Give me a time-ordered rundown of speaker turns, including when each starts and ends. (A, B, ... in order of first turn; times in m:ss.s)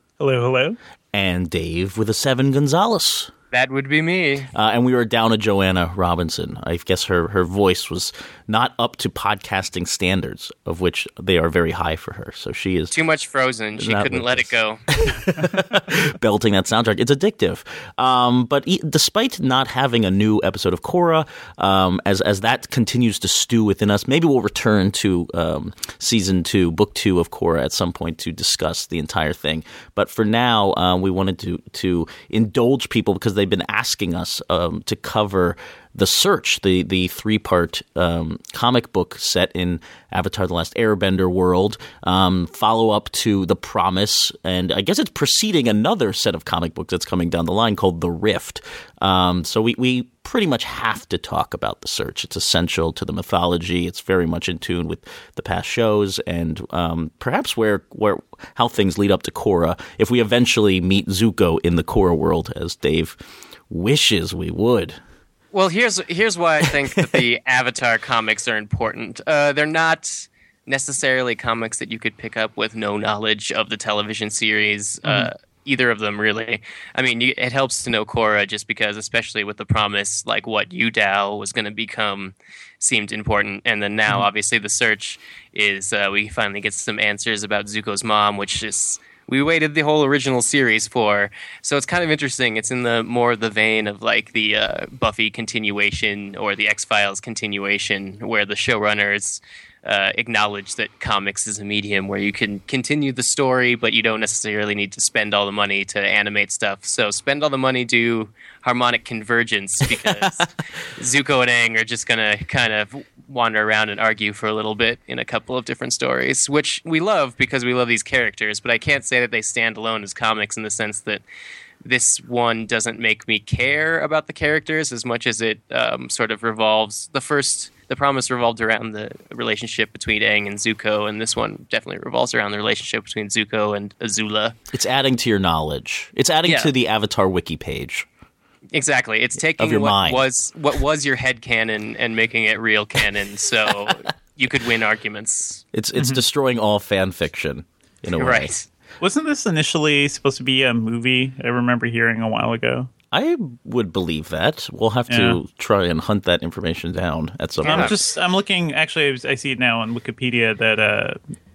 0:00.2-0:00.8 A
0:01.1-0:03.3 B
0:03.5-0:04.5 C
0:04.5-0:12.9 B
0:12.9-0:14.8 C
0:13.8-1:03.2 B
1:03.7-1:05.0 B
1:05.5-2:01.2 C
1:15.0-1:15.3 A
1:50.0-1:50.4 B
2:01.8-2:14.6 C
2:14.7-2:18.1 B
2:16.5-2:16.7 C
2:18.7-2:25.6 C
2:19.6-2:20.2 B
2:25.7-2:28.5 B
2:26.0-2:26.2 A
2:28.2-2:28.6 C
2:29.0-2:32.9 A
2:33.1-2:38.0 B
2:35.1-2:35.4 A
2:37.6-2:41.2 A
2:37.6-2:37.9 C